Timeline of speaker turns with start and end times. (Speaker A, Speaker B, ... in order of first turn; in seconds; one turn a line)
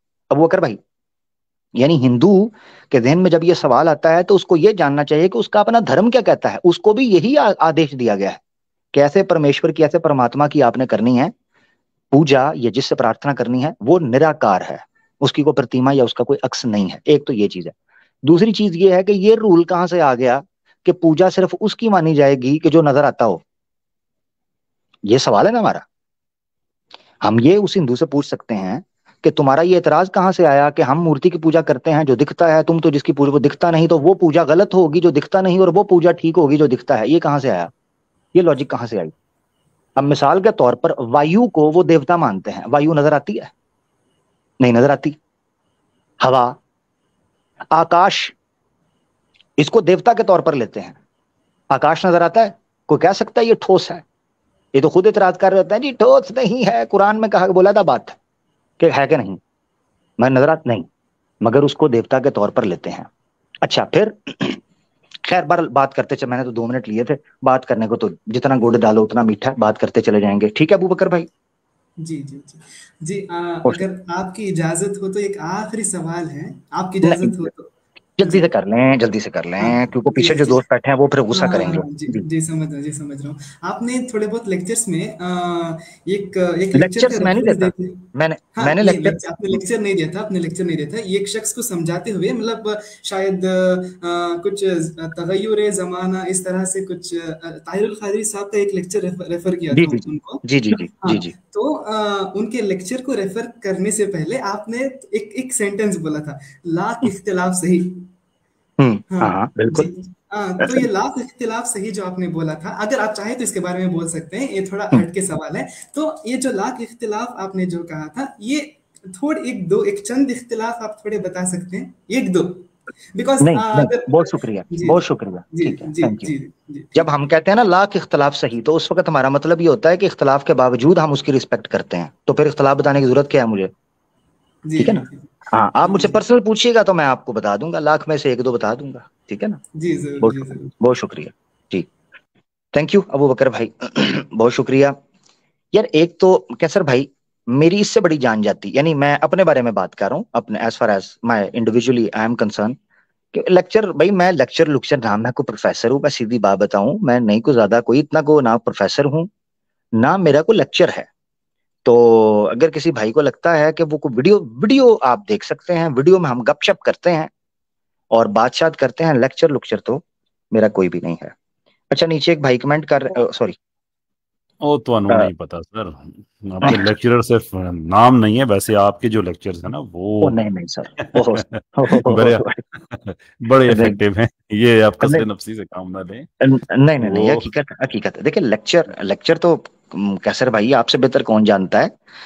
Speaker A: 0.3-0.8
Speaker A: 1.8-8.4
Speaker A: 8.9-11.3
Speaker A: 12.1-17.7
Speaker A: 18.2-23.4
Speaker A: 25.1-25.8
Speaker A: 27.2-37.7
Speaker A: 38.3-39.1
Speaker A: 40.0-43.5
Speaker A: 44.6-45.2
Speaker A: 46.2-46.6
Speaker A: 47.7-48.3
Speaker A: 49.6-51.0
Speaker A: 51.7-54.0
Speaker A: 54.7-58.2
Speaker A: 58.8-59.4
Speaker A: 60.2-60.9
Speaker A: 61.4-63.1
Speaker A: 63.6-64.6
Speaker A: 65.2-71.3
Speaker B: 72.0-77.7
Speaker A: 77.0-77.5
Speaker A: 78.2-82.2
Speaker B: 79.6-80.6
Speaker B: 81.3-108.1
Speaker A: 86.7-89.2
Speaker A: 99.7-101.3
Speaker A: 108.8-109.9
Speaker B: 109.1-125.0
Speaker A: 110.6-110.9
Speaker A: 123.4-126.3
Speaker B: 125.5-127.1
Speaker A: 127.0-133.7
Speaker B: 134.7-136.2
Speaker A: 134.8-139.6
Speaker B: 139.8-140.7
Speaker A: 140.2-141.9
Speaker A: 142.7-145.0
Speaker A: 145.7-152.8
Speaker A: 153.3-159.3
Speaker A: 160.0-161.1
Speaker A: 161.8-167.3
Speaker A: 168.1-171.3
Speaker A: 171.9-173.6
Speaker C: 174.6-180.4
Speaker A: 180.2-182.6
Speaker C: 181.0-186.3
Speaker A: 183.7-184.0
Speaker A: 186.4-192.0
Speaker C: 187.0-187.5